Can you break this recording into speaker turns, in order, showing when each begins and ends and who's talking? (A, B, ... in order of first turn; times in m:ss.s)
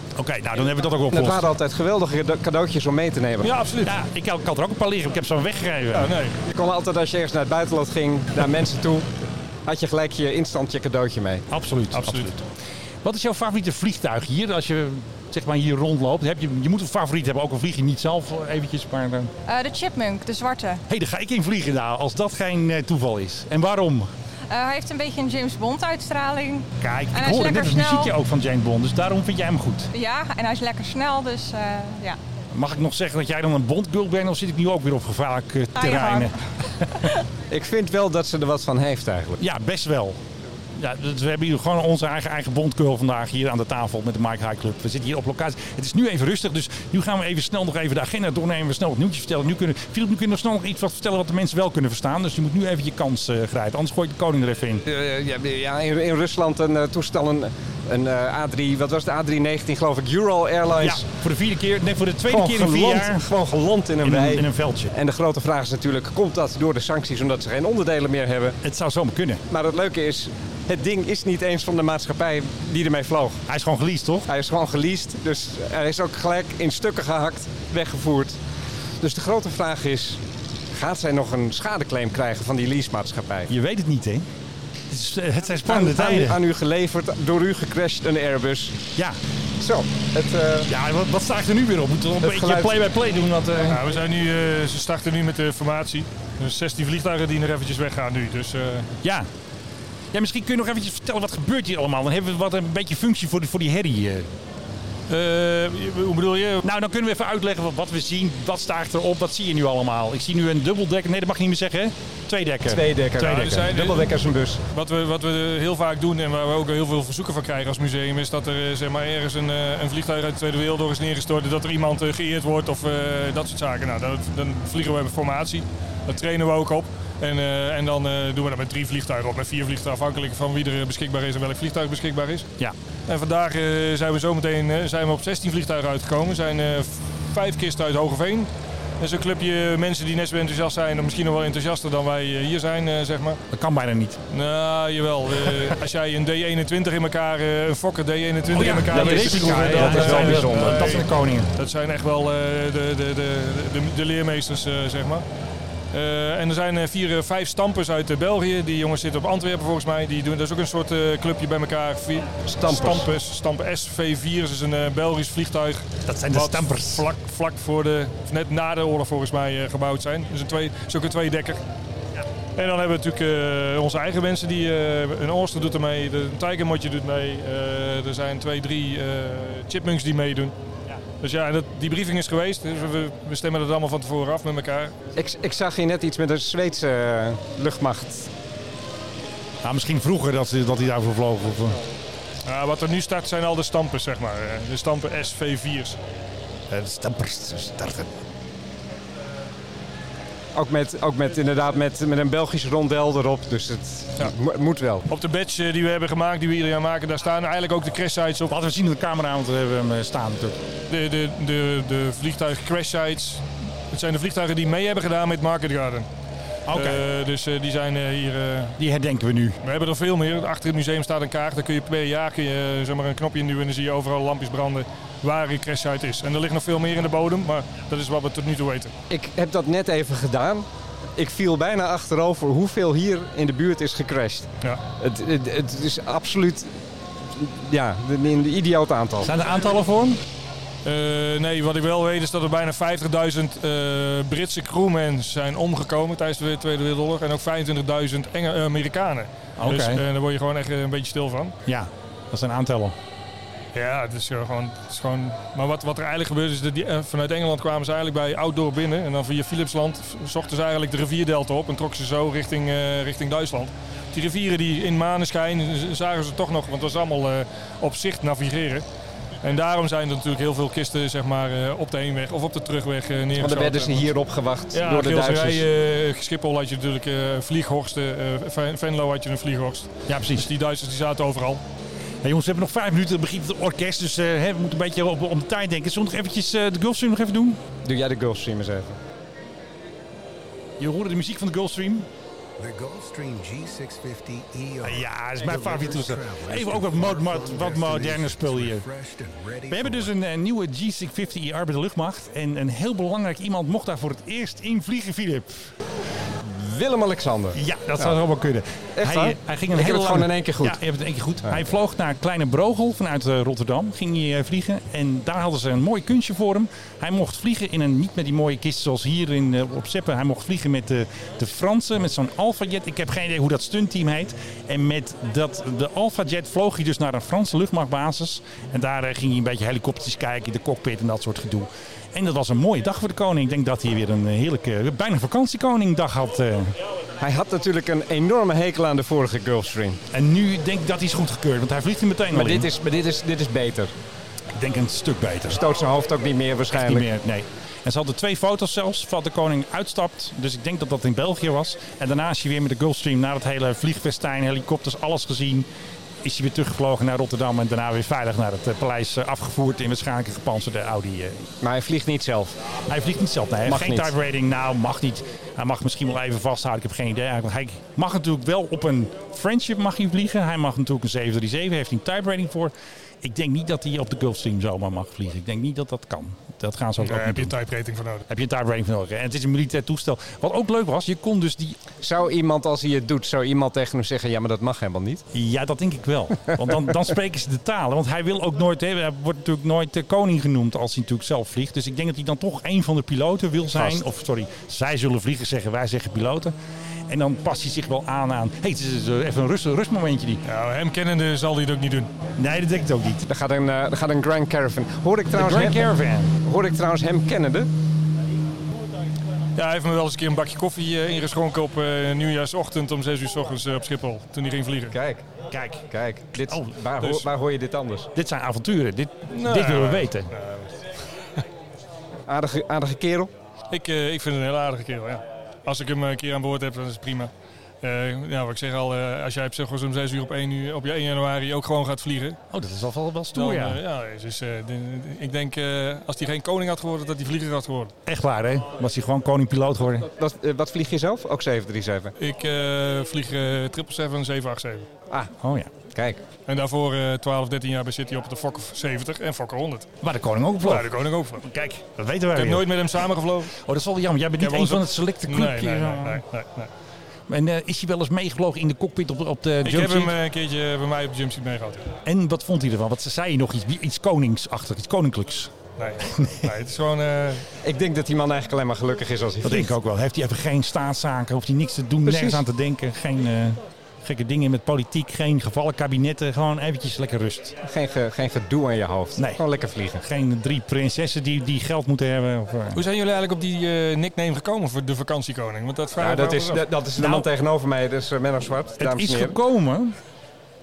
0:00.2-0:01.5 A
0:01.1-0:03.5 B
0:03.4-0:03.9 C
0:03.8-0:06.1 A
0:05.9-0:06.4 C
0:06.5-0:09.1 B
0:09.6-0:11.4 B
0:11.5-0:12.4 A
0:11.9-0:12.3 C
0:13.0-0:19.3 A
0:19.5-0:20.8 D
0:20.9-0:24.1 A
0:24.5-0:28.1 D
0:26.8-0:29.9 A
0:29.9-0:32.2 D
0:32.5-0:37.1 A
0:35.8-0:36.3 D
0:37.5-0:39.4 B
0:39.4-0:40.2 A
0:40.7-0:54.8 A
0:54.8-1:01.0 B
1:00.8-1:03.3 A
1:02.3-1:08.6 B
1:04.0-1:04.9 A
1:08.6-1:09.4 A
1:09.5-1:13.4 B
1:13.5-1:14.3 A
1:14.3-1:18.4 B
1:19.0-1:20.2 B
1:20.7-1:23.5 B
1:23.5-1:24.2 A
1:24.9-1:26.4 A
1:25.7-1:28.8 B
1:29.6-1:30.7 B
1:30.7-1:33.9 A
1:32.2-1:32.7 B
1:33.7-1:38.9 C
1:39.0-1:39.3 A
1:40.1-1:44.3 A
1:45.1-1:46.6 C
1:46.6-1:53.5 A
1:52.6-1:54.6 B
1:53.2-1:54.2 C
1:54.7-2:12.5 C
2:13.1-2:18.5 C
2:19.0-2:23.4 C
2:23.5-2:24.2 A
2:24.3-2:35.2 C
2:25.4-2:25.7 A
2:28.5-2:31.5 A
2:28.9-2:31.0 B
2:35.9-2:51.6 C
2:42.5-2:43.0 B
2:46.1-2:47.1 A
2:52.6-3:00.5 C
3:01.2-3:04.9 C
3:05.2-3:08.3 B
3:09.6-3:11.8 A
3:12.4-3:16.0 C
3:16.7-3:18.1 A
3:20.5-3:25.0 B
3:25.1-3:28.5 C
3:28.5-3:30.6 A
3:30.9-3:36.1 C
3:36.7-3:37.0 A
3:36.7-3:38.8 C
3:38.8-3:39.6 A
3:39.6-3:48.9 C
3:49.1-3:56.7 B
3:57.3-3:59.3 B
3:59.2-4:00.2 A
4:00.8-4:11.5 C
4:09.6-4:10.0 A
4:11.6-4:12.9 A
4:13.7-4:28.8 C
4:29.4-4:34.1 C
4:33.4-4:35.6 B
4:34.7-4:41.6 C
4:40.1-4:40.5 A
4:42.2-4:47.6 A
4:47.8-4:49.0 B
4:50.8-4:52.1 A
4:52.6-5:00.1 E
4:54.8-4:58.8 A
4:59.7-5:05.7 A
5:06.4-5:08.2 B
5:07.5-5:36.8 A
5:09.0-5:10.8 B
5:37.2-5:40.0 B
5:40.1-5:42.7 A
5:42.3-5:43.9 B
5:44.5-5:45.6 A
5:45.5-5:47.1 B
5:46.7-5:55.7 A
5:56.2-6:01.4 A
6:01.6-6:02.6 B
6:02.9-6:17.5 A
6:03.6-6:04.1 B
6:17.0-6:18.2 C
6:18.3-6:21.8 A
6:22.0-6:25.2 B
6:25.3-6:36.5 A
6:33.7-6:34.0 B
6:37.1-6:40.4 A
6:40.4-6:42.1 C
6:42.4-6:43.2 A
6:43.3-6:45.9 B
6:45.3-6:46.3 A
6:46.4-6:47.7 B
6:49.6-6:55.0 C
6:54.9-6:55.2 B
6:55.5-6:56.8 A
6:55.9-6:58.1 B
6:58.1-7:00.3 A
6:59.3-7:00.8 C
7:02.3-7:03.3 B
7:03.7-7:07.3 C
7:07.8-7:12.4 C
7:12.5-7:13.8 A
7:13.3-7:17.9 C
7:18.0-7:20.1 A
7:20.2-7:22.1 B
7:22.2-7:24.9 C
7:25.4-7:25.7 A
7:25.9-7:26.2 B
7:26.5-7:29.9 C
7:30.0-7:32.7 A
7:30.6-7:31.4 C
7:32.3-7:33.6 C
7:33.6-7:36.2 A
7:34.4-7:36.7 C
7:37.3-7:40.2 A
7:39.6-7:41.9 C
7:42.0-7:46.5 A
7:45.8-7:47.4 C
7:47.6-7:49.7 B
7:49.4-7:57.6 A
7:52.0-7:52.4 B
7:57.6-8:00.0 B
8:00.0-8:02.8 A
8:02.7-8:06.7 C
8:06.0-8:09.4 B
8:07.0-8:07.3 A
8:08.8-8:10.0 A